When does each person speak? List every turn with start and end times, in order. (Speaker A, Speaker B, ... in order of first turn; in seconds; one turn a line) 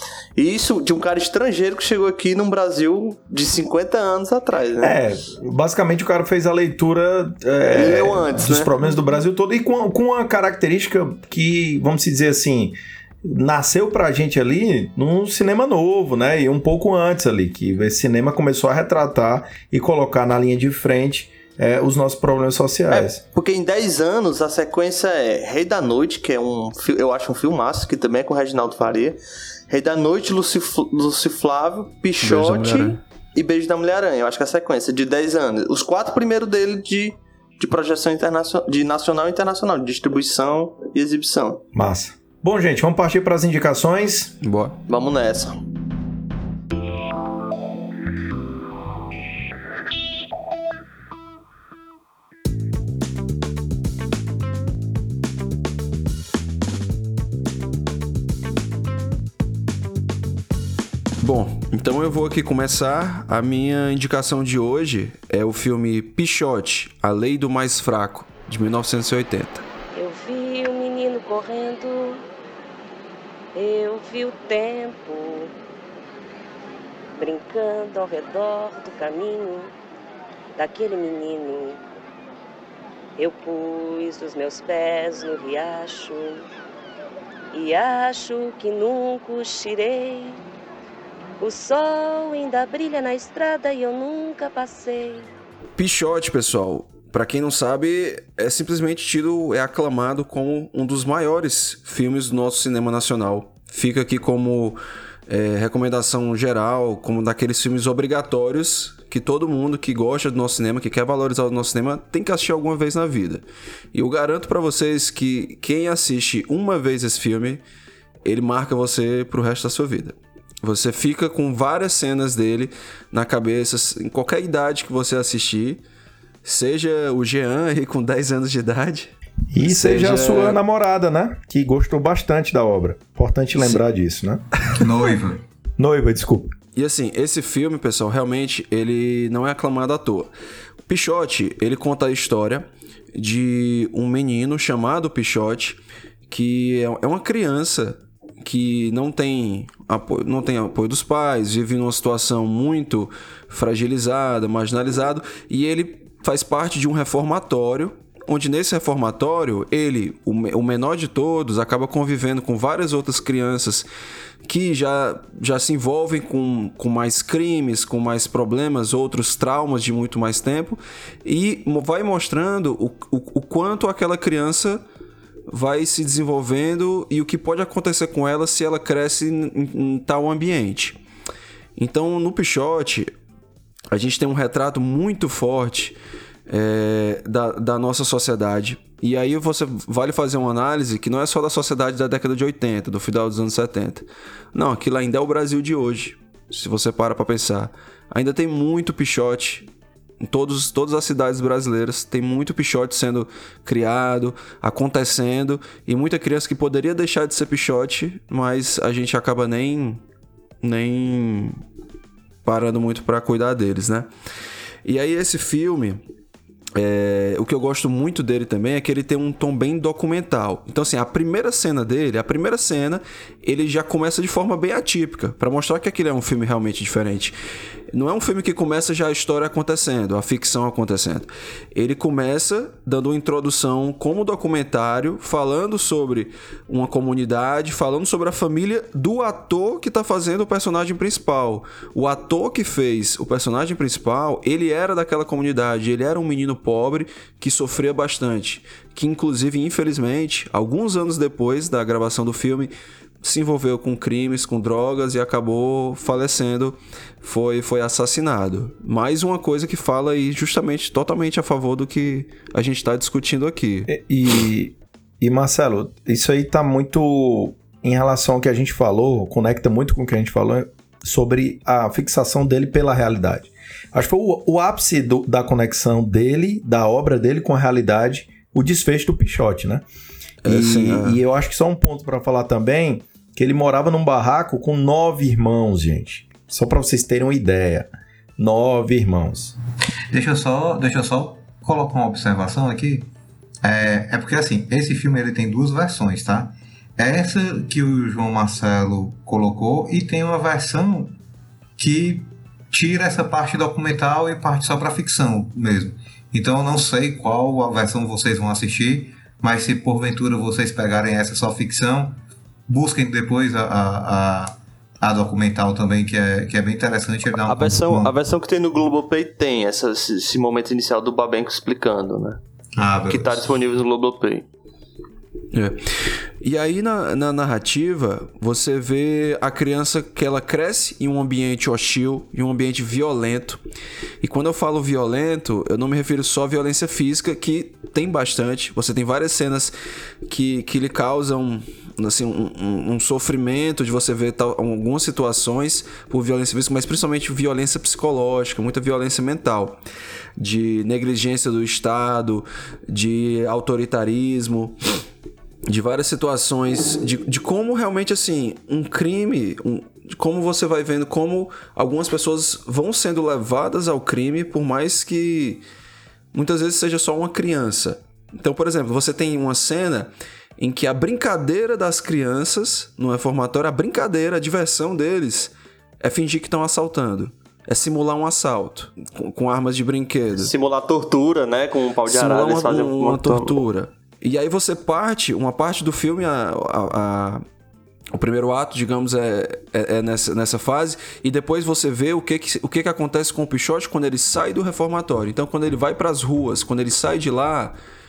Speaker A: 0.4-5.0
Speaker B: 4.8-23.2
Speaker A: 7.7-8.7
Speaker A: 22.9-29.2
Speaker A: 29.7-41.6
Speaker C: 32.2-33.0
Speaker B: 41.7-44.3
Speaker C: 44.4-44.8
Speaker A: 44.9-45.5
Speaker C: 61.2-69.6
Speaker D: 69.9-72.2
Speaker D: 73.5-75.5
Speaker D: 77.2-79.7
Speaker D: 80.6-81.8
Speaker D: 83.2-86.4
Speaker D: 87.5-90.4
Speaker D: 91.4-95.3
Speaker C: 95.8-117.6
Speaker C: 118.2-125.8
Speaker C: 126.4-129.1
Speaker B: 129.5-134.4
Speaker C: 129.6-130.6
Speaker E: 134.7-135.4
Speaker B: 135.8-136.5
Speaker C: 136.7-140.3
Speaker C: 140.9-163.9
Speaker C: 164.4-174.8
Speaker C: 175.5-181.0
Speaker C: 181.8-183.1
Speaker C: 183.9-185.9
Speaker C: 186.5-199.7
Speaker C: 200.2-210.0
Speaker C: 210.6-211.6
Speaker C: 212.4-214.1
Speaker C: 214.8-216.0
Speaker C: 216.8-227.3
Speaker C: 227.9-263.9
Speaker B: 263.9-279.8
Speaker C: 280.4-281.2
Speaker B: 280.4-289.5
Speaker E: 290.1-293.1
Speaker E: 293.6-301.2
Speaker E: 301.8-318.1
Speaker A: 317.4-322.4
Speaker E: 322.8-323.4
Speaker A: 323.1-324.4
Speaker C: 325.5-333.6
Speaker C: 334.2-339.7
Speaker C: 340.3-349.8
Speaker C: 350.4-354.8
Speaker C: 355.7-365.6
Speaker C: 366.3-380.5
Speaker A: 380.4-383.6
Speaker C: 382.1-387.4
Speaker C: 388.1-397.8